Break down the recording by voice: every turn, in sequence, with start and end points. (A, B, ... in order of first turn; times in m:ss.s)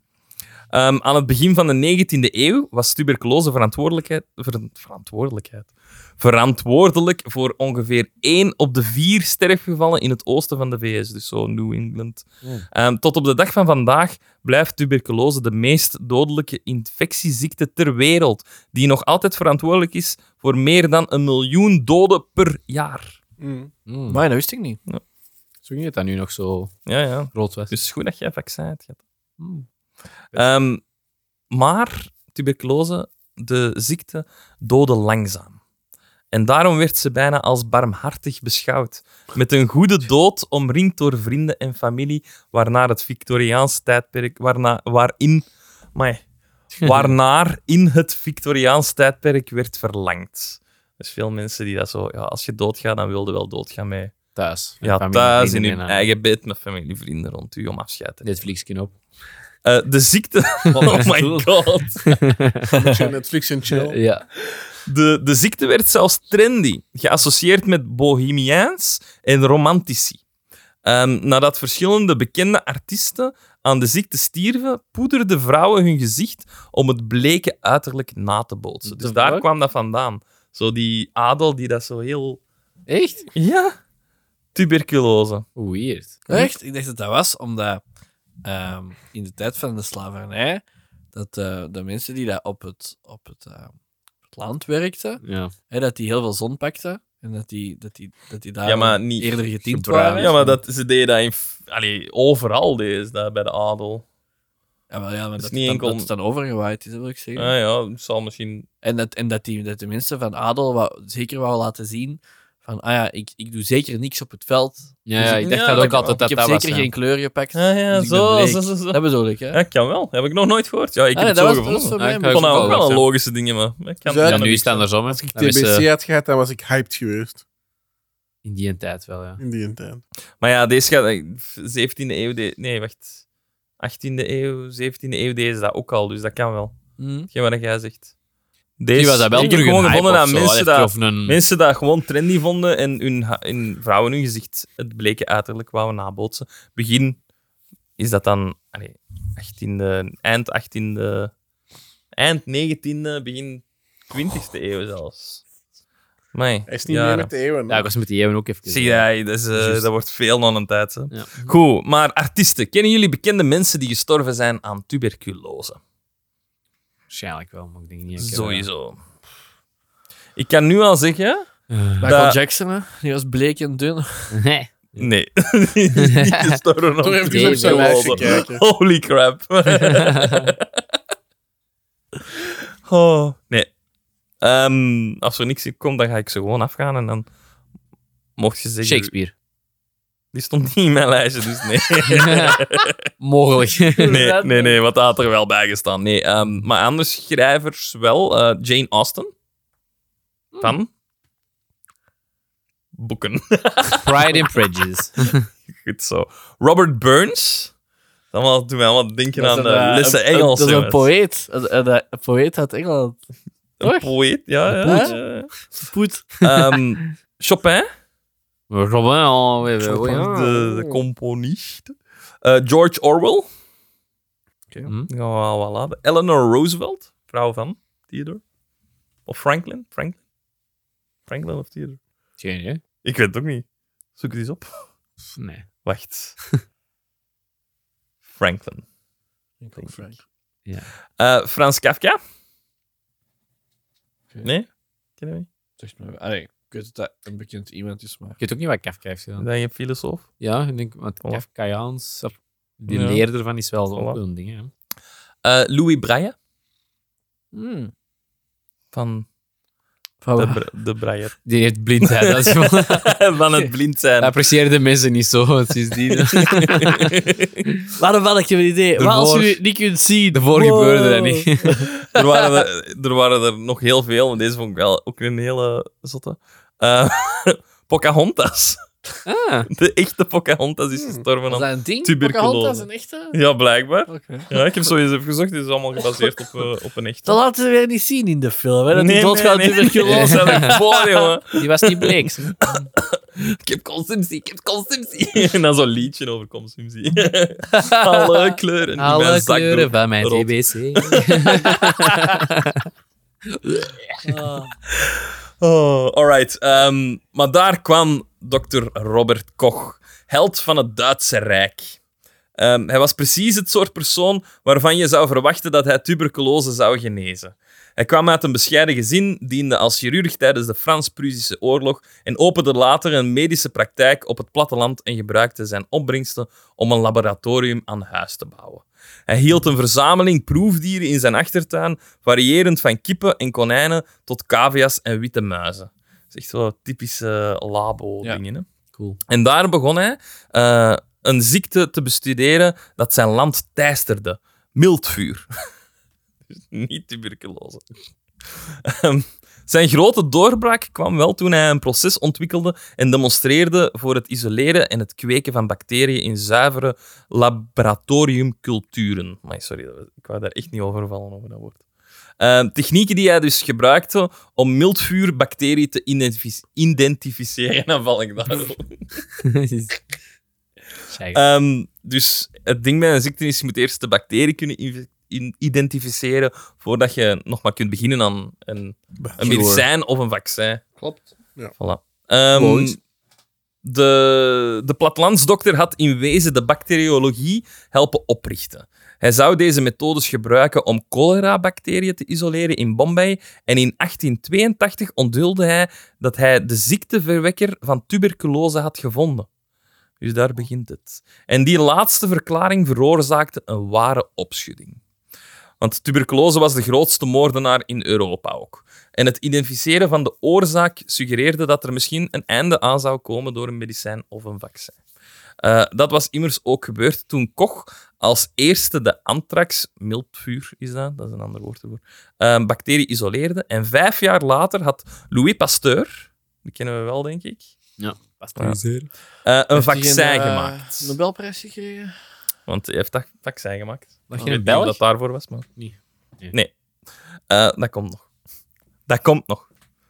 0:00.7-0:23.2 A
0:23.4-0:23.7 B
0:23.9-0:24.2 C
0:24.1-0:24.8 D
0:25.6-0:26.7 C
0:26.9-0:29.0 A
0:27.3-0:27.7 C
0:29.4-0:29.6 C
0:30.3-0:30.8 A
0:31.5-0:35.6 A
0:36.3-0:46.2 A
0:46.8-0:54.2 A
0:46.8-0:47.1 C
0:54.3-0:56.1 C
0:54.8-0:58.3 A
0:58.2-0:58.9 C
0:59.6-1:02.2 A
1:00.7-1:01.5 D
1:02.0-1:02.6 C
1:02.8-1:04.0 B
1:02.8-1:03.1 D
1:03.8-1:04.2 C
1:04.8-1:10.2 A
1:10.8-1:22.4 A
1:18.8-1:19.4 C
1:22.9-1:23.3 C
1:23.3-1:23.8 A
1:24.5-1:25.5 A
1:25.6-1:26.2 C
1:26.3-1:27.8 D
1:28.4-1:30.6 D
1:31.1-1:33.7 D
1:34.3-1:40.6 D
1:35.2-1:35.5 C
1:38.6-1:39.4 A
1:39.7-1:40.5 C
1:40.1-1:44.0 A
1:44.9-1:47.5 D
1:45.4-1:46.1 A
1:47.4-1:48.7 A
1:48.8-1:59.6 D
1:55.0-1:56.9 C
1:55.4-1:56.1 A
1:57.5-2:04.8 A
2:01.1-2:02.9 D
2:02.0-2:03.1 C
2:04.0-2:07.4 B
2:04.2-2:05.8 C
2:08.4-2:09.4 C
2:09.4-2:10.0 B
2:10.4-2:13.2 A
2:13.8-2:16.7 A
2:17.0-2:17.3 D
2:17.3-2:18.1 A
2:18.8-2:27.2 A
2:18.9-2:21.4 C
2:28.0-2:31.3 A
2:32.1-2:35.4 A
2:36.3-2:37.3 A
2:36.7-2:37.8 B
2:37.7-2:39.0 C
2:38.7-2:45.8 A
2:41.1-2:41.5 C
2:47.1-2:48.7 C
2:48.2-2:49.0 A
2:50.4-2:51.5 A
2:51.7-2:52.0 C
2:52.0-2:54.4 D
2:52.0-2:52.4 A
2:54.3-2:55.1 C
2:55.0-3:00.6 A
2:56.0-2:56.6 C
2:57.0-2:58.6 B
2:57.2-2:58.2 C
2:59.7-3:00.5 C
3:02.8-3:03.7 A
3:04.4-3:07.3 A
3:08.4-3:09.1 A
3:08.8-3:09.3 C
3:10.3-3:12.9 A
3:12.1-3:12.6 C
3:13.2-3:14.2 C
3:13.8-3:14.8 D
3:14.1-3:19.3 A
3:20.6-3:20.9 A
3:23.0-3:24.4 A
3:23.9-3:25.4 C
3:25.8-3:27.7 A
3:28.3-3:31.1 A
3:29.4-3:33.2 D
3:33.8-3:35.6 A
3:33.8-3:34.1 D
3:34.7-3:36.4 D
3:34.8-3:35.2 C
3:36.4-3:37.9 A
3:38.7-3:40.3 C
3:39.8-3:41.0 D
3:40.1-3:43.5 A
3:45.1-3:48.4 A
3:49.3-3:50.2 A
3:51.3-3:52.0 A
3:52.4-3:52.8 C
3:53.0-3:53.6 A
3:54.2-3:54.7 A
3:55.4-3:55.7 C
3:55.8-3:56.4 A
3:58.3-3:58.8 A
3:59.6-4:00.2 D
4:01.2-4:02.2 A
4:05.2-4:05.4 A
4:05.8-4:08.4 D
4:08.4-4:09.4 C
4:09.4-4:10.3 A
4:10.4-4:14.7 C
4:12.9-4:13.2 A
4:15.4-4:16.3 A
4:17.5-4:17.9 D
4:18.9-4:19.2 A
4:20.2-4:20.6 D
4:20.4-4:21.4 A
4:21.4-4:23.1 C
4:22.0-4:24.4 A
4:24.2-4:27.1 C
4:26.1-4:27.6 A
4:28.0-4:32.6 D
4:29.0-4:29.5 C
4:30.3-4:31.9 C
4:32.1-4:38.8 A
4:39.2-4:39.7 C
4:39.7-4:47.4 A
4:41.5-4:43.3 D
4:44.1-4:44.6 D
4:46.0-4:46.6 D
4:47.2-4:51.3 D
4:48.9-5:02.4 A
4:51.6-4:52.6 C
4:57.8-4:58.3 D
4:59.0-5:02.8 C
5:04.2-5:04.7 D
5:04.9-5:12.0 A
5:12.6-5:38.6 A
5:39.3-5:45.5 A
5:46.6-5:47.8 A
5:48.8-6:01.8 A
6:02.4-6:09.0 A
6:09.4-6:09.9 C
6:11.1-6:11.4 C
6:11.3-6:21.2 A
6:19.2-6:19.6 B
6:19.4-6:19.8 C
6:21.8-6:23.0 A
6:22.6-6:22.9 C
6:23.8-6:39.5 A
6:40.2-6:45.0 A
6:45.8-6:55.0 A
6:55.6-7:07.7 A
7:08.0-7:09.1 C
7:09.4-7:11.1 A
7:09.7-7:12.2 D
7:12.7-7:15.7 A
7:14.3-7:15.0 C
7:15.8-7:16.5 C
7:17.5-7:18.2 A
7:19.1-7:19.7 A